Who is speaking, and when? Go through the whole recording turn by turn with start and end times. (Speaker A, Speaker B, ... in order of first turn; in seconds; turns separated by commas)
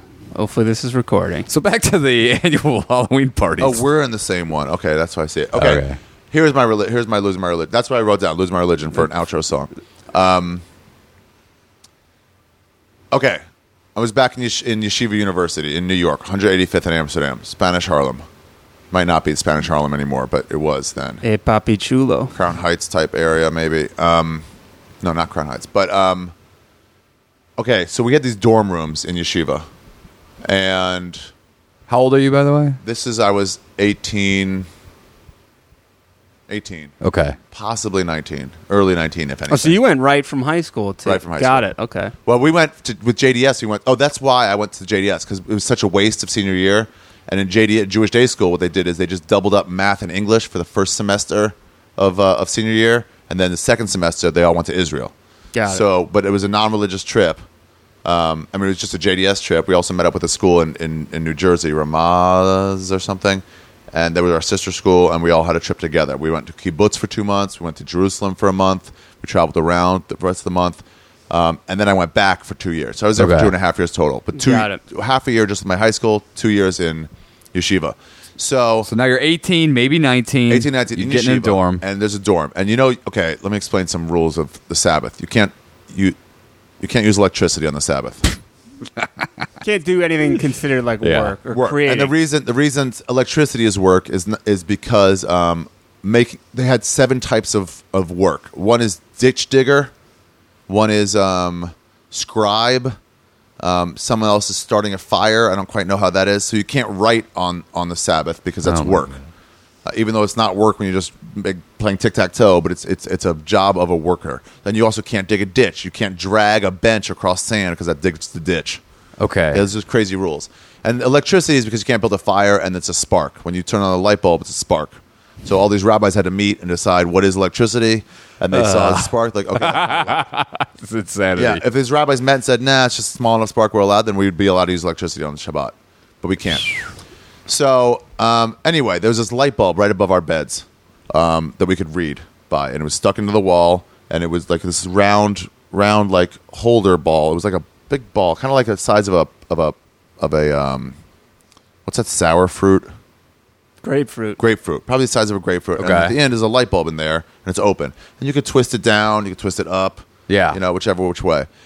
Speaker A: 0.3-1.5, Speaker B: 1.5-3.8, Speaker C: 3.6-10.6, Speaker B: 5.5-6.0, Speaker C: 13.1-13.4, Speaker C: 13.9-18.2, Speaker C: 18.9-21.2, Speaker A: 21.2-22.3, Speaker C: 22.3-24.4, Speaker C: 25.0-26.3, Speaker C: 27.6-29.6, Speaker C: 30.4-31.3, Speaker B: 31.9-32.8, Speaker C: 32.8-34.7, Speaker C: 36.5-36.9, Speaker B: 37.0-37.4, Speaker C: 37.5-39.8, Speaker A: 39.5-42.1, Speaker C: 41.0-41.7, Speaker C: 42.2-55.1, Speaker A: 55.5-55.8, Speaker C: 55.7-57.4, Speaker C: 58.0-78.9, Speaker B: 73.2-73.5, Speaker A: 74.4-74.8, Speaker B: 78.8-81.8, Speaker C: 80.5-86.2, Speaker C: 86.8-88.3, Speaker A: 89.6-92.1, Speaker B: 91.0-91.3, Speaker C: 91.5-99.9, Speaker C: 100.7-103.0, Speaker C: 103.6-109.2, Speaker B: 108.6-109.0, Speaker C: 109.8-118.8, Speaker B: 119.2-119.6, Speaker C: 119.5-130.2, Speaker B: 128.5-131.6, Speaker C: 131.3-136.8, Speaker C: 137.5-150.9, Speaker C: 151.8-152.9, Speaker A: 153.8-154.4, Speaker C: 154.4-161.5, Speaker B: 155.8-156.1, Speaker B: 160.3-160.6